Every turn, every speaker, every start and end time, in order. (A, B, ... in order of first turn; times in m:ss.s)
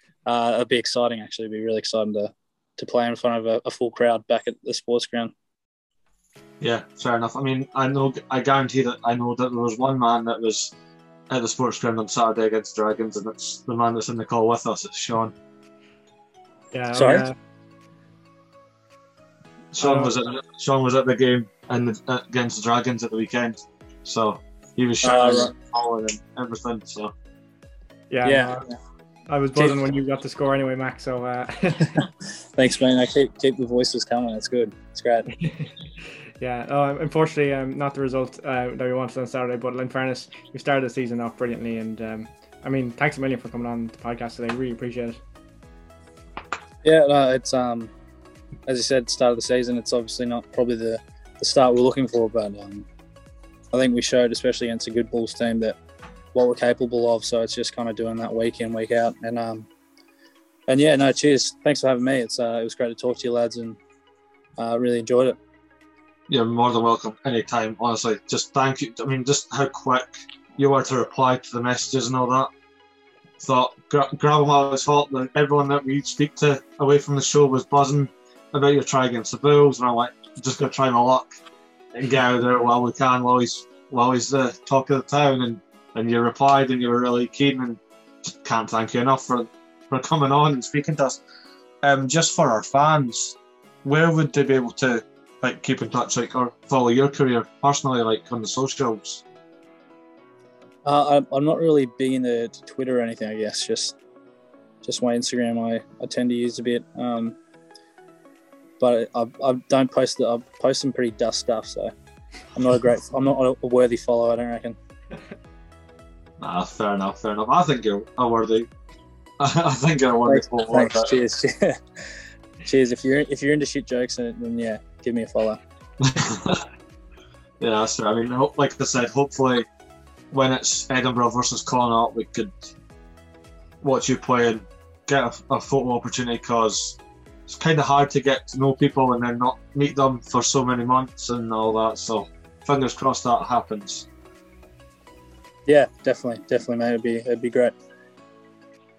0:00.3-0:05.3 A
0:06.6-0:10.7 B
0:11.3-0:15.3 B
0:16.7-0:17.4 C
0:16.9-0:17.2 A
0:19.7-0:27.1 B
0:19.8-0:20.1 C
0:25.0-0:25.5 A
0:28.1-0:28.6 C
0:28.2-0:28.8 A
0:29.3-0:32.0 C
0:32.6-0:35.3 A
0:35.3-0:45.2 C
0:46.8-0:47.9 A
0:48.7-0:52.9 A
0:53.7-0:55.8 A
0:56.3-0:59.7 A
1:00.7-1:03.8 A
1:04.6-1:05.4 A
1:06.3-1:12.5 B
1:13.4-1:21.3 B
1:21.9-1:31.2 B
1:31.8-1:39.2 B
1:40.8-1:44.0 A
1:44.8-1:47.4 A
1:48.8-1:51.9 A
1:52.6-1:54.8 A
1:56.4-1:58.7 B
1:59.4-2:01.1 B
2:00.3-2:01.8 A
2:02.6-2:05.6 A
2:06.0-2:06.6 B
2:07.6-2:09.7 B
2:10.3-2:12.5 B
2:13.8-2:17.0 B
2:17.5-2:24.1 B
2:25.7-2:27.8 A